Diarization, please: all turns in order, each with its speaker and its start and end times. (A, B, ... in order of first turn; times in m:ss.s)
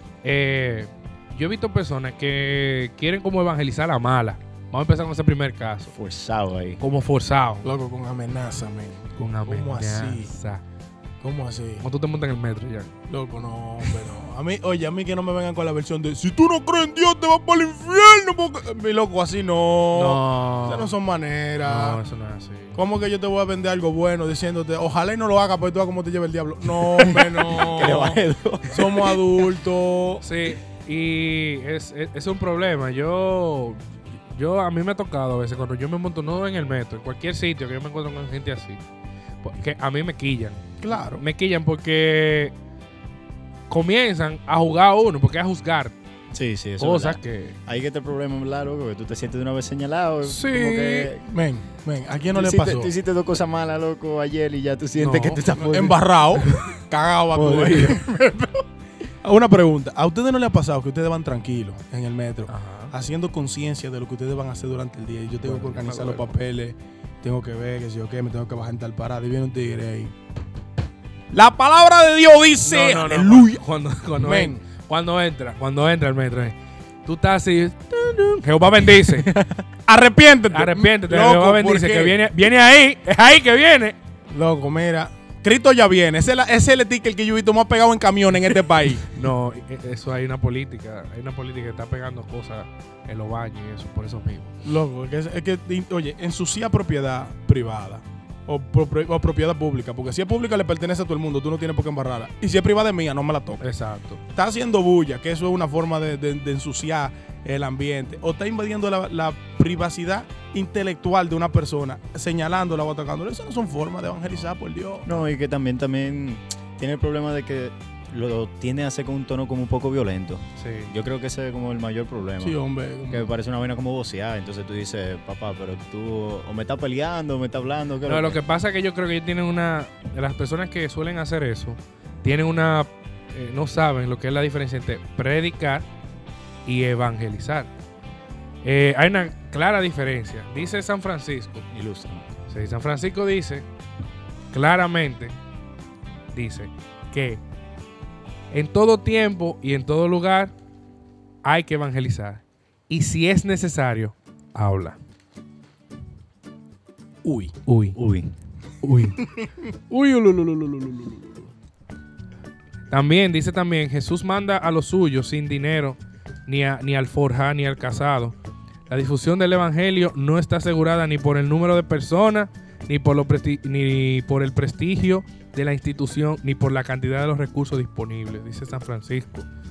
0:00.2-0:05.9 A
0:05.9-0:06.8 B
0:06.8-0:07.7 A
0:07.6-0:10.3 C
0:09.2-0:10.6 A
0:11.2-0:11.8 C
0:11.8-0:12.9 A
0:13.1-0:22.0 C
0:19.9-0:20.9 A
0:21.6-0:22.8 A
0:22.8-0:30.2 C
0:26.9-0:29.2 B
0:30.2-0:38.8 A
0:39.4-0:42.5 A
0:40.8-0:41.2 C
0:43.7-0:45.9 A
0:46.3-0:51.2 B
0:46.8-0:47.6 A
0:50.2-0:51.1 A
0:51.2-0:52.9 C
0:52.3-0:56.7 B
0:55.0-0:55.4 A
0:55.5-0:58.1 C
0:57.3-0:58.5 B
0:59.2-1:10.1 C
1:02.5-1:02.9 A
1:05.4-1:06.3 A
1:11.3-1:14.6 C
1:12.6-1:16.6 A
1:17.1-1:19.3 A
1:19.1-1:19.6 B
1:19.9-1:22.2 C
1:20.5-1:24.0 A
1:24.3-1:29.1 C
1:29.1-1:34.6 A
1:34.6-1:43.6 C
1:43.6-1:44.2 A
1:44.3-1:55.2 C
1:55.0-2:02.6 B
2:00.6-2:00.9 A
2:02.4-2:03.3 C
2:03.1-2:08.4 B
2:08.0-2:15.9 A
2:16.6-2:17.7 A
2:18.6-2:21.7 A
2:21.7-2:22.3 B
2:22.5-2:23.7 A
2:24.5-2:25.4 A
2:26.3-2:27.4 A
2:28.5-2:30.5 A
2:31.4-2:35.0 A
2:37.2-2:37.5 C
2:37.7-2:38.0 A
2:38.0-2:38.3 B
2:38.8-2:39.3 A
2:39.9-2:41.2 A
2:42.9-2:48.4 A
2:48.9-2:59.5 A